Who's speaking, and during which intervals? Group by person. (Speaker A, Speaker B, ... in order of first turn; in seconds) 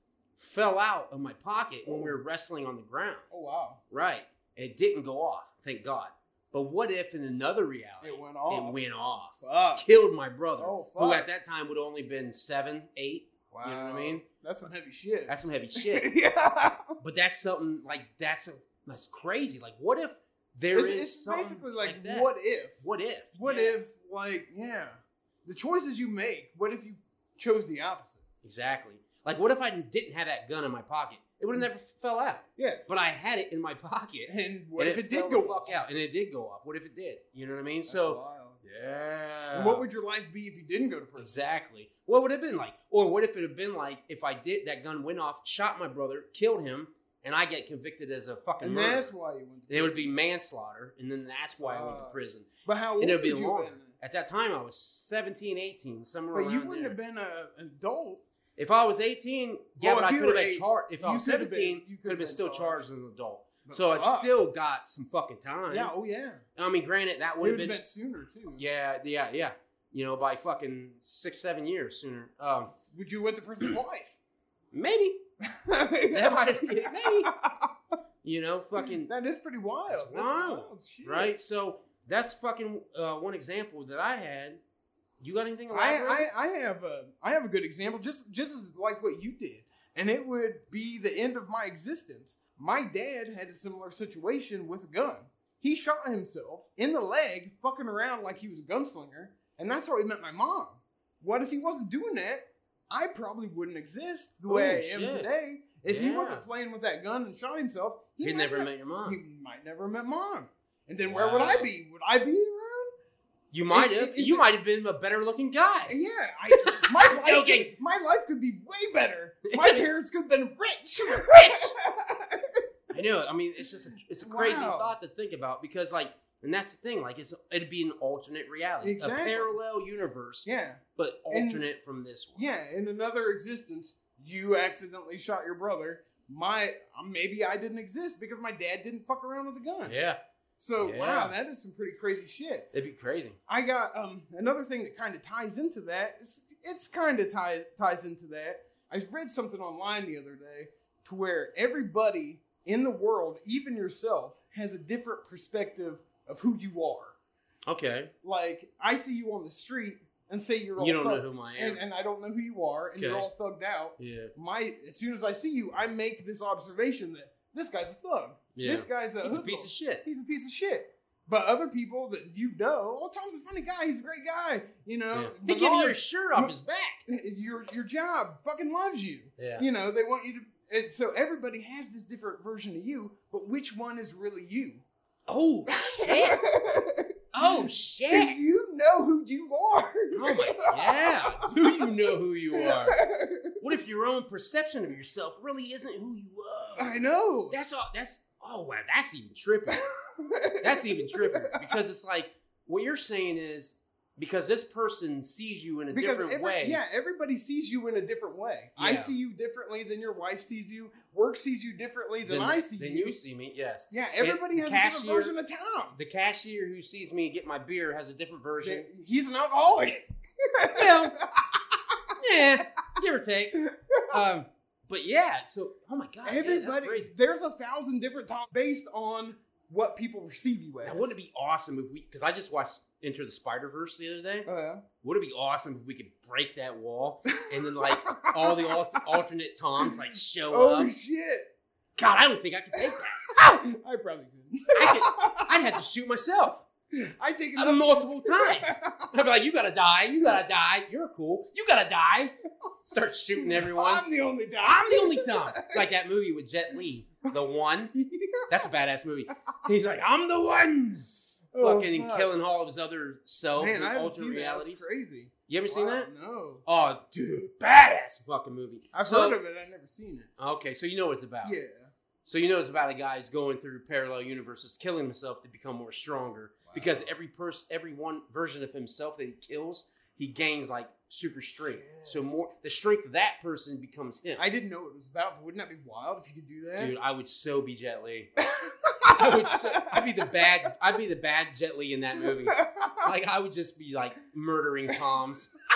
Speaker A: 0.4-3.2, 3.9-14.2, 15.3-16.1, 17.0-23.8, 28.4-39.8, 41.2-49.1, 49.7-57.0, 58.6-65.9, 66.6-67.8, 68.5-72.7, 74.7-75.2, 76.1-77.3, 78.2-79.1, 79.9-84.6, 85.2-86.3, 104.5-105.3, 105.8-106.4, 108.2-109.2, 111.0-111.7, 113.5-117.7, 119.5-119.9, 121.2-121.7, 122.9-132.4, 139.8-140.2, 140.8-141.3, 142.7-143.4, 157.7-158.1, 160.8-161.8, 162.9-163.3, 164.0-164.3, 168.5-170.0, 175.1-177.0, 179.4-179.6, 185.3-186.5, 187.3-188.4, 190.1-193.0, 193.6-199.8, 200.6-206.8, 208.8-209.1, 212.2-215.4, 215.9-218.9, 220.7-221.1, 222.2-227.1, 230.8-234.5, 235.0-240.9, 242.0-243.2, 244.7-246.6, 247.6-252.3, 252.8-254.0, 254.6-257.9, 258.5-264.8, 265.5-266.1, 266.6-269.4, 270.4-271.6, 272.2-284.4, 286.8-288.3, 289.2-295.5
Speaker B: 1.8-2.1, 3.3-3.8, 8.0-8.8, 9.4-9.8, 10.6-11.3, 13.5-16.9, 20.7-22.8, 23.4-28.2, 32.6-32.8, 34.3-35.8, 37.9-38.6, 39.5-41.4, 48.6-50.1, 51.6-53.9, 56.3-58.2, 59.8-62.9, 63.6-64.3, 65.7-66.4, 67.4-68.6, 72.7-74.2, 75.4-77.7, 78.8-81.3, 85.7-112.9, 113.7-114.5, 115.9-122.6, 124.2-125.0, 128.8-129.6, 130.4-131.6, 132.3-139.9, 140.6-142.7, 143.5-157.2, 158.2-176.5, 177.1-184.8, 185.9-191.2, 192.5-193.6, 196.8-197.6, 199.7-201.7, 205.9-213.2, 213.9-216.0, 218.6-222.6, 223.5-224.2, 226.2-231.1, 234.4-234.8, 237.3-239.2, 239.8-241.5, 242.8-245.8, 246.9-249.0, 253.4-255.8, 257.9-258.7, 261.5-262.3, 263.6-266.6, 268.9-270.3, 271.4-271.9, 276.7-277.1, 281.6-282.2, 284.4-286.9, 288.4-290.1, 292.2-293.1